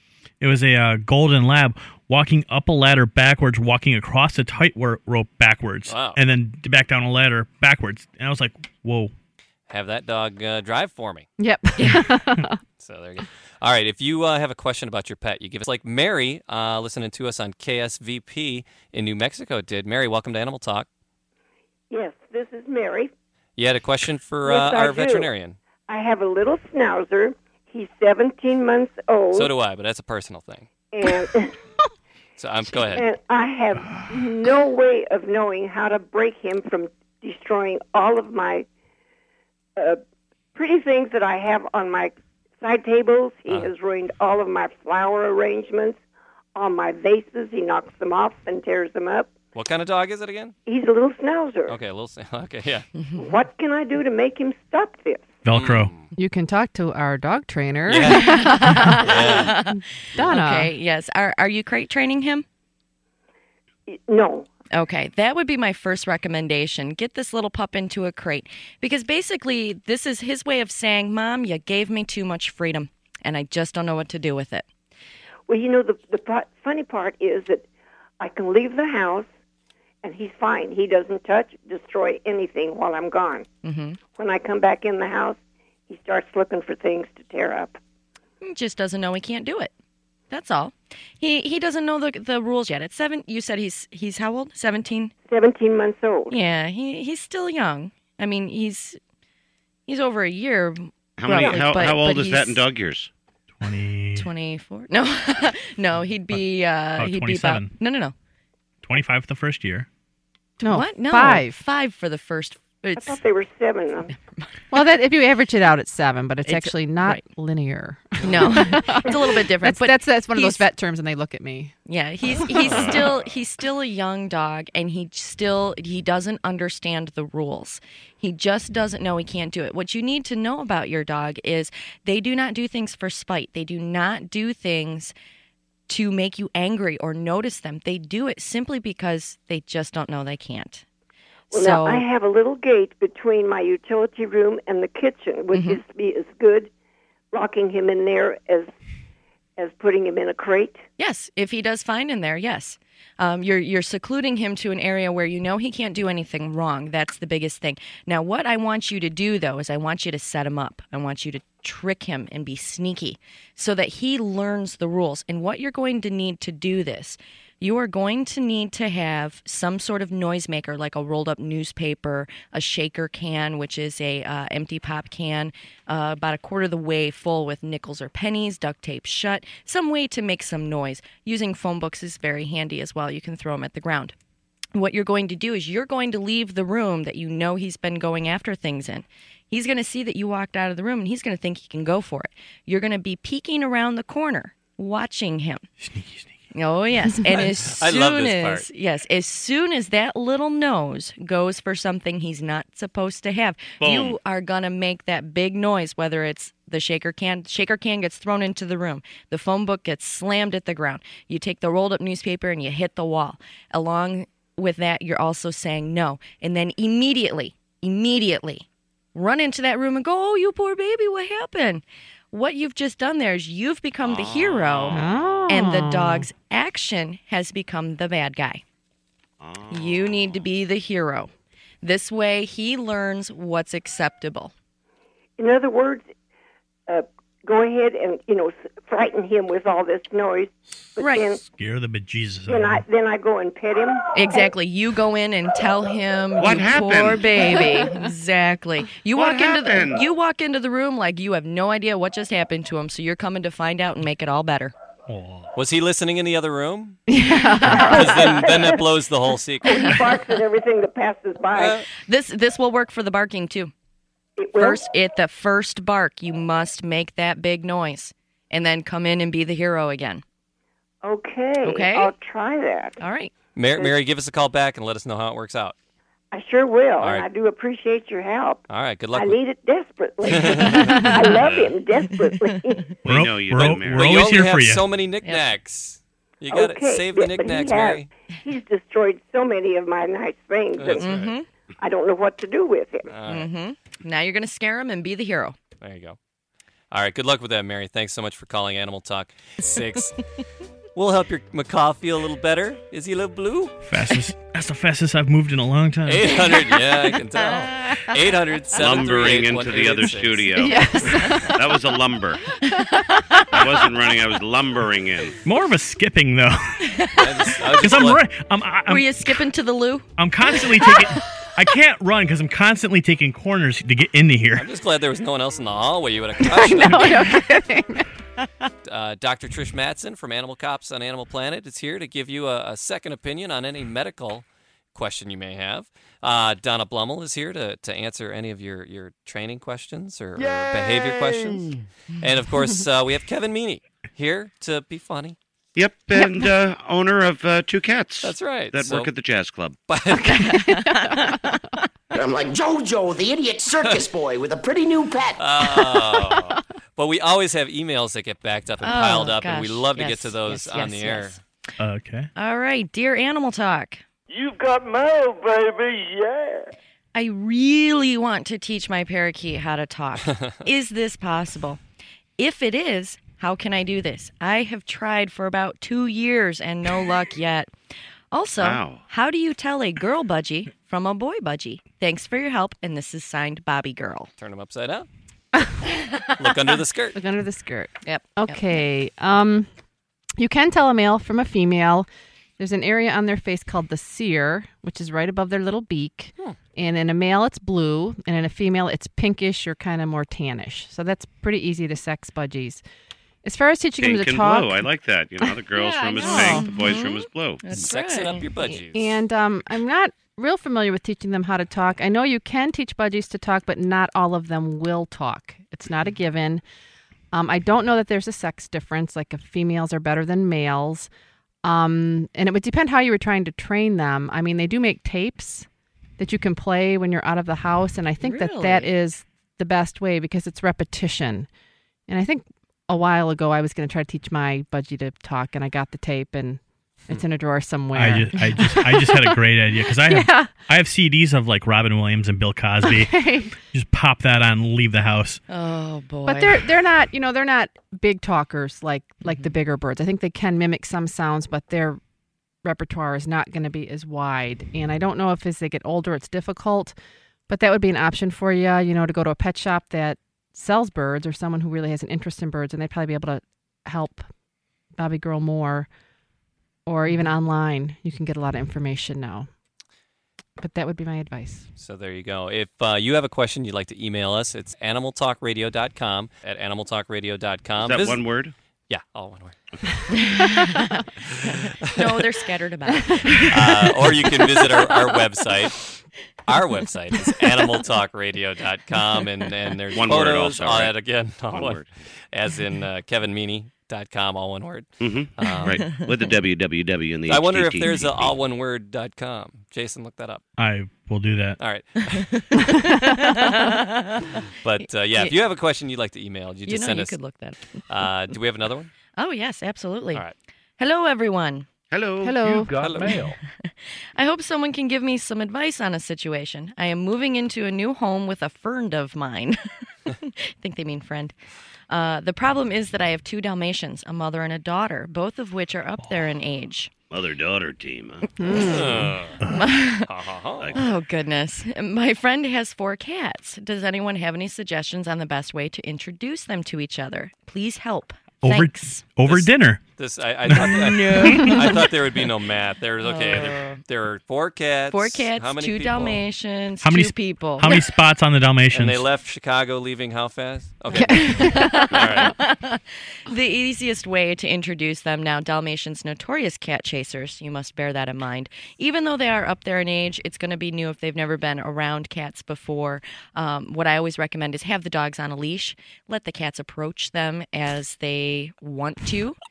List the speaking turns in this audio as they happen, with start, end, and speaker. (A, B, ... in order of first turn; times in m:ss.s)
0:00.4-0:09.1 A
0:05.9-0:06.2 B
0:09.7-0:11.3 B
0:11.4-0:12.6 C
0:11.8-0:12.0 D
0:12.8-0:20.9 B
0:21.9-0:23.1 E
0:23.6-0:25.6 B
0:24.4-0:25.3 E
0:25.9-0:29.5 E
0:29.3-0:30.7 B
0:30.9-0:31.5 E
0:32.4-0:33.0 B
0:32.9-0:38.6 E
0:40.5-0:46.0 E
0:46.5-0:49.3 E
0:49.5-0:50.5 B
0:50.6-0:51.8 E
0:51.7-0:52.9 B
0:53.0-0:53.3 D
0:53.1-0:55.3 E
0:55.4-0:55.9 A
0:55.5-0:56.1 B
0:56.2-1:00.7 C
0:57.9-0:59.6 B
0:58.1-1:02.4 D
1:03.9-1:04.5 E
1:04.7-1:14.7 D
1:15.5-1:17.6 E
1:18.2-1:19.3 E
1:20.0-1:23.5 E
1:23.6-1:24.0 D
1:24.0-1:27.8 E
1:28.4-1:29.7 D
1:30.3-1:35.1 D
1:35.3-1:36.4 E
1:36.3-1:39.0 D
1:39.9-1:42.6 D
1:41.2-1:43.1 F
1:43.6-1:44.3 A
1:44.1-1:48.1 D
1:46.3-1:47.7 A
1:48.8-1:49.9 A
1:50.6-1:53.2 D
1:50.6-1:51.6 C
1:53.0-1:54.1 E
1:54.7-2:01.7 C
1:56.4-1:57.2 D
1:58.2-2:00.7 D
2:01.8-2:15.1 D
2:02.6-2:03.2 B
2:15.9-2:20.8 D
2:21.5-2:22.0 D
2:21.5-2:26.7 E
2:25.5-2:25.8 D
2:27.3-2:28.7 E
2:29.6-2:30.8 E
2:31.0-3:04.1 D
3:04.7-3:15.7 D
3:15.8-3:16.4 A
3:16.5-3:48.6 D
3:17.6-3:18.7 B
3:23.8-3:24.2 F
3:44.0-3:45.5 F
3:44.9-3:46.3 C
3:49.4-3:50.5 F
3:49.7-3:51.3 D
3:51.8-3:54.5 D
3:55.4-3:56.1 E
3:56.9-4:01.4 E
4:01.0-4:01.2 D
4:01.4-4:02.8 A
4:02.5-4:04.5 E
4:04.2-4:14.7 D
4:06.4-4:07.4 F
4:09.1-4:10.0 F
4:15.1-4:15.5 A
4:15.5-4:17.1 B
4:17.1-4:18.2 C
4:17.7-4:20.0 B
4:17.7-4:18.8 E
4:19.6-4:21.8 E
4:21.5-4:21.8 B
4:22.0-4:23.7 D
4:24.4-4:24.9 E
4:24.6-4:30.2 D
4:31.0-4:33.0 E
4:31.6-4:32.1 D
4:33.0-4:33.3 D
4:33.5-4:35.8 B
4:36.3-4:43.0 E
4:37.0-4:37.3 B
4:38.7-4:39.4 B
4:40.2-4:41.7 B
4:43.0-4:44.1 F
4:43.0-4:44.9 A
4:43.6-4:48.1 B
4:45.2-4:45.5 D
4:46.5-4:51.2 E
4:50.8-4:51.3 B
4:51.0-4:51.5 D
4:51.8-4:53.1 E
4:53.1-4:53.5 B
4:53.3-4:55.6 D
4:55.8-4:56.2 B
4:56.9-5:00.2 B
5:00.9-5:03.8 B
5:03.8-5:06.6 A
5:06.0-5:10.5 B
5:06.6-5:08.2 D
5:08.8-5:12.5 F
5:10.6-5:11.6 C
5:12.6-5:13.4 D
5:13.5-5:15.4 F
5:15.4-5:17.0 A
5:16.8-5:17.9 D
5:17.2-5:18.2 B
5:17.7-5:19.4 A
5:18.8-5:21.2 D
5:20.2-5:24.7 A
5:24.5-5:27.4 B
5:26.5-5:28.1 C
5:28.8-5:45.4 B
5:40.4-5:41.6 G
5:45.8-5:49.8 F
5:48.2-5:49.1 B
5:49.9-5:50.6 B
5:50.2-5:51.8 D
5:50.4-5:51.4 C
5:52.1-5:56.0 H
5:55.4-6:01.4 B
5:58.8-6:01.4 D
6:01.8-6:02.3 A
6:02.3-6:04.0 D
6:04.3-6:06.7 G
6:07.1-6:11.8 D
6:10.2-6:10.6 B
6:12.4-6:17.7 D
6:18.3-6:24.3 D
6:18.6-6:19.0 F
6:24.4-6:25.1 B
6:26.4-6:27.2 B
6:27.1-6:29.7 C
6:28.0-6:28.8 D
6:30.4-6:32.1 C
6:32.6-6:42.8 C
6:43.4-6:44.8 C
6:44.0-6:47.6 F
6:45.5-6:46.8 C
6:46.2-6:48.5 D
6:47.7-6:49.2 B
6:48.7-6:56.6 C
6:57.3-7:01.1 C
7:01.6-7:05.7 C
7:06.2-7:11.5 C
7:08.2-7:08.9 D
7:12.1-7:20.5 C
7:17.9-7:25.4 A
7:22.8-7:23.5 C
7:25.5-7:26.7 D
7:26.2-7:32.0 C
7:32.6-7:36.9 C
7:37.5-7:44.2 C
7:45.0-7:45.9 C
7:46.9-7:49.5 C
7:50.6-7:51.6 C
7:51.8-7:58.2 B
7:57.8-7:58.5 F
7:58.9-7:59.6 B
8:00.1-8:05.2 D
8:00.4-8:01.0 C
8:01.3-8:02.2 B
8:03.4-8:05.8 B
8:06.5-8:16.0 B
8:09.9-8:10.9 F
8:11.5-8:11.8 F
8:15.0-8:18.3 F
8:15.6-8:16.1 D
8:17.3-8:20.4 B
8:20.6-8:21.6 A
8:21.6-8:22.6 B
8:22.0-8:25.4 D
8:24.6-8:27.3 B
8:26.6-8:27.8 D
8:27.9-8:28.9 B
8:29.2-8:30.2 D
8:30.8-8:31.7 D
8:31.9-8:32.6 F
8:32.2-8:32.7 C
8:32.8-8:33.4 B
8:33.4-8:41.3 D
8:41.9-8:46.9 D
8:47.1-8:48.3 F
8:48.4-8:49.1 C
8:48.6-8:49.4 B
8:49.5-8:50.2 D
8:50.1-8:50.8 B
8:50.6-8:50.9 F
8:50.7-8:59.0 D
8:58.4-8:59.8 A
8:59.2-9:06.2 B
9:00.5-9:01.6 A
9:00.5-9:02.3 D
9:03.0-9:03.8 D
9:04.9-9:07.8 D
9:06.8-9:09.0 A
9:08.7-9:12.3 B
9:10.9-9:12.2 C
9:10.9-9:29.4 D